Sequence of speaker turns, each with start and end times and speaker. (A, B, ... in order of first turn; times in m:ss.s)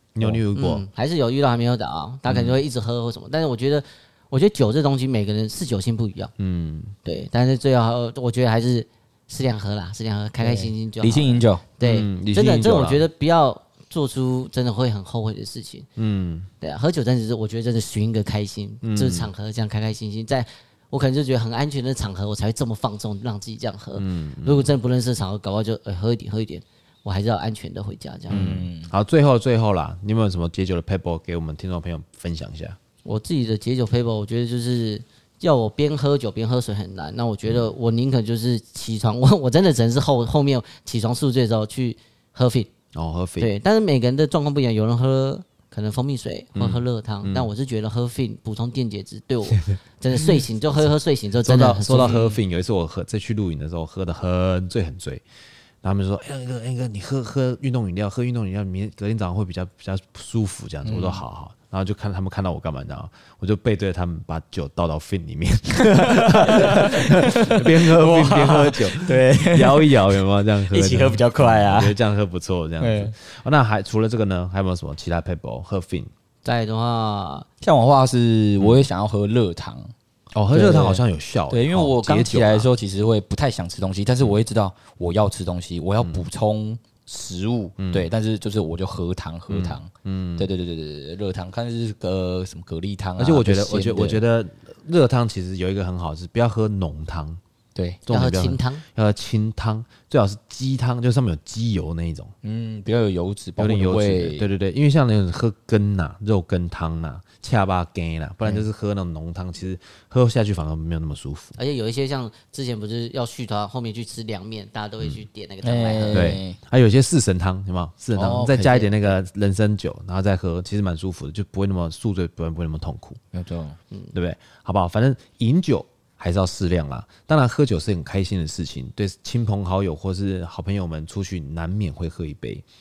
0:00.2-0:00.9 A
0:00.5-0:06.3 B
0:02.3-0:02.6 A
0:06.4-0:06.9 A
0:07.0-0:15.9 B
0:10.4-0:11.7 C
0:11.8-0:13.0 A
0:16.0-0:16.5 A
0:16.6-0:28.4 B
0:18.8-0:19.3 A
0:24.0-0:24.7 A
0:28.3-0:28.9 C
0:28.3-0:32.8 A
0:33.0-0:42.7 B
0:42.9-0:43.5 A
0:43.4-0:52.4 B
0:46.6-0:47.5 A
0:51.4-0:55.2 A
0:55.8-1:16.1 A
1:00.8-1:01.2 C
1:05.9-1:10.2 C
1:10.7-1:12.0 C
1:12.8-1:13.1 C
1:16.4-1:17.5 B
1:17.6-1:19.9 C
1:18.6-1:18.8 A
1:20.3-1:22.7 A
1:20.5-1:34.2 C
1:27.8-1:28.1 A
1:29.5-1:30.5 A
1:33.2-1:37.4 A
1:37.8-1:38.0 C
1:38.1-1:42.3 A
1:38.1-1:38.8 B
1:42.4-1:44.5 C
1:43.6-1:51.6 A
1:51.6-1:56.4 B
1:55.6-1:56.6 C
1:56.1-2:03.2 A
1:58.2-1:58.9 C
2:03.3-2:03.8 C
2:04.1-2:12.6 A